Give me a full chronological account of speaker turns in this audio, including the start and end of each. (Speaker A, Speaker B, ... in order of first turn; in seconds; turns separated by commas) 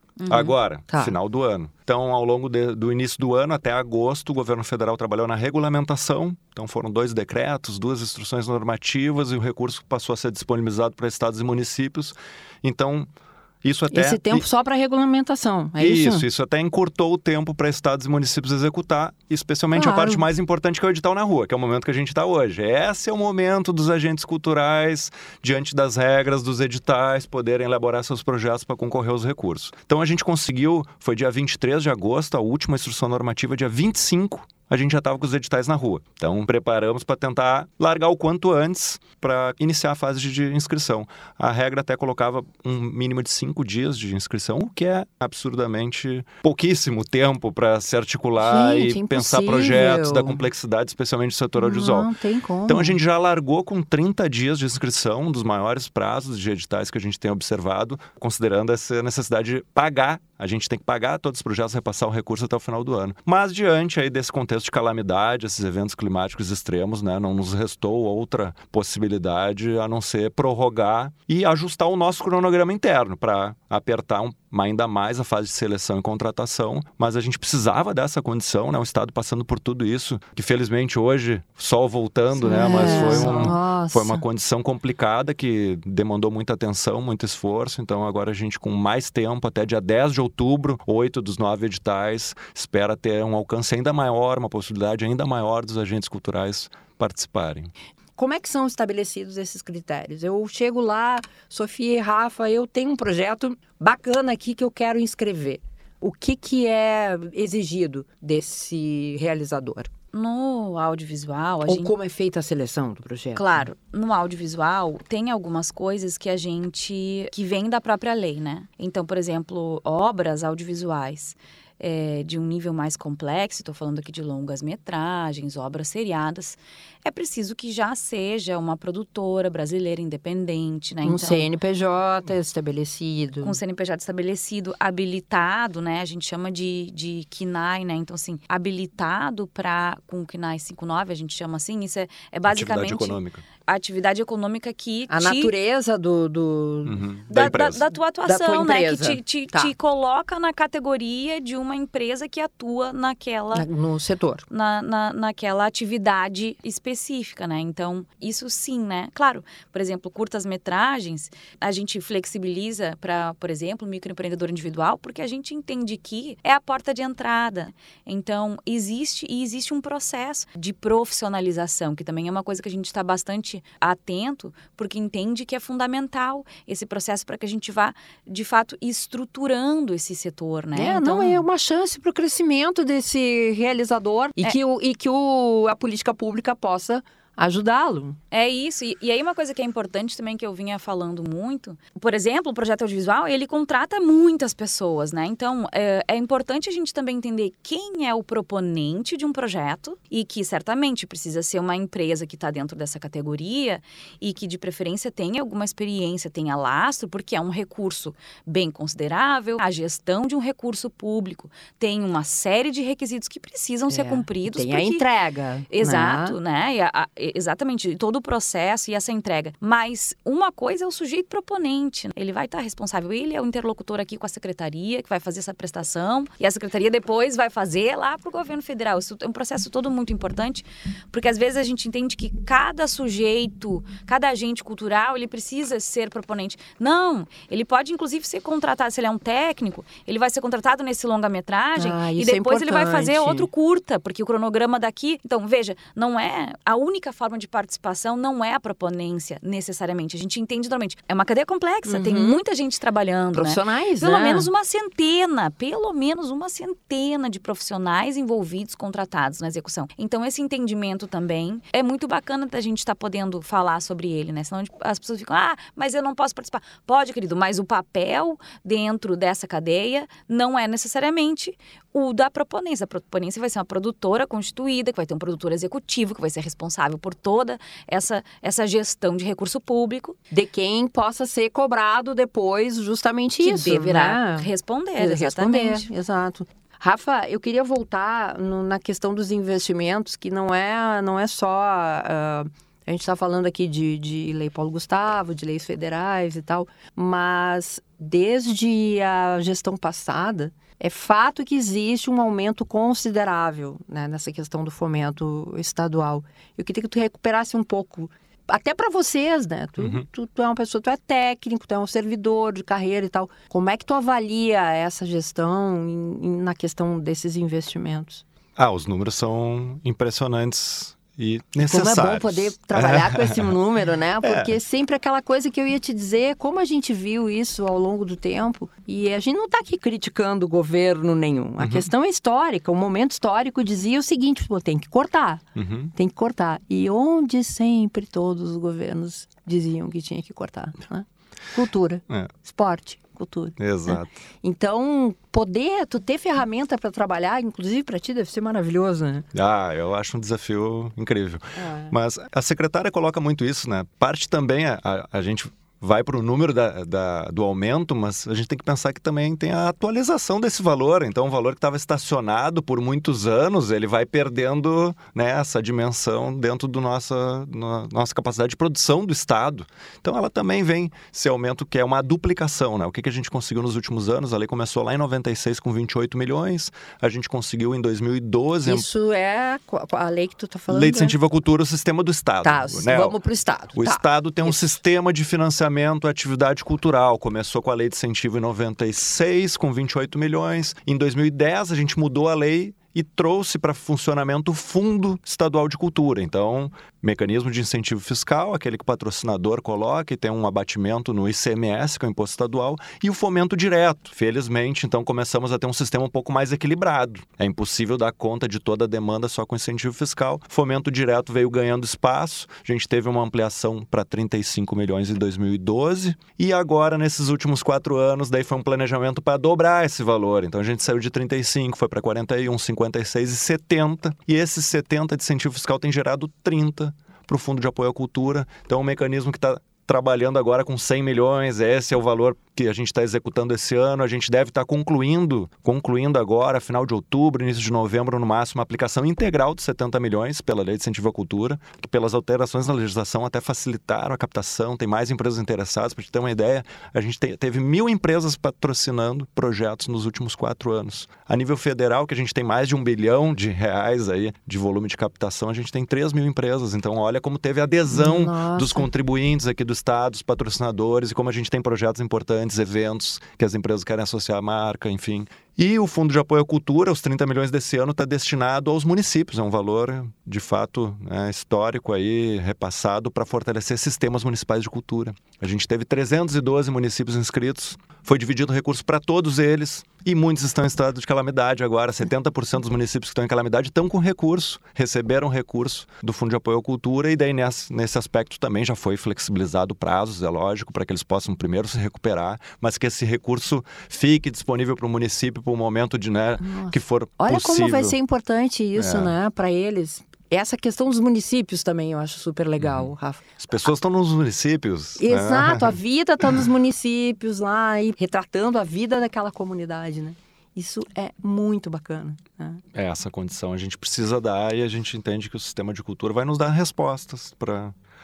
Speaker A: 0.2-0.5, Speaker B: 0.3-13.1, Speaker C: 0.9-1.1, Speaker B: 13.6-14.4, Speaker C: 13.9-16.2, Speaker B: 15.8-52.1, Speaker C: 19.7-20.2, Speaker C: 48.4-50.4, Speaker C: 51.6-53.0, Speaker B: 52.7-97.7, Speaker C: 82.4-84.2, Speaker A: 82.8-83.5, Speaker C: 98.2-109.9, Speaker A: 110.1-111.9, Speaker C: 111.6-113.5, Speaker A: 113.3-131.5, Speaker C: 131.0-133.6, Speaker A: 133.4-145.5, Speaker B: 142.5-143.4, Speaker C: 145.1-147.0, Speaker B: 146.8-147.8, Speaker A: 147.3-153.7, Speaker C: 148.2-149.7, Speaker C: 153.5-154.4, Speaker A: 154.5-181.4, Speaker C: 180.7-188.2, Speaker A: 188.3-215.0, Speaker C: 213.9-216.4, Speaker A: 215.7-280.2, Speaker C: 241.8-243.5, Speaker C: 251.9-252.4, Speaker C: 253.3-254.5, Speaker C: 280.3-318.2, Speaker A: 283.4-285.9, Speaker B: 309.8-310.0, Speaker B: 318.6-323.5, Speaker C: 321.6-335.4, Speaker B: 324.2-324.5, Speaker B: 331.6-331.9, Speaker B: 335.6-335.9, Speaker C: 335.9-349.2, Speaker B: 343.6-344.1, Speaker B: 349.3-378.9, Speaker C: 351.6-351.9, Speaker C: 378.6-381.1, Speaker B: 380.7-383.2, Speaker C: 382.4-384.7, Speaker B: 383.7-497.9, Speaker C: 457.9-458.9, Speaker C: 496.4-503.2, Speaker B: 498.8-499.1, Speaker B: 502.6-505.8, Speaker C: 505.0-512.6, Speaker B: 512.7-517.7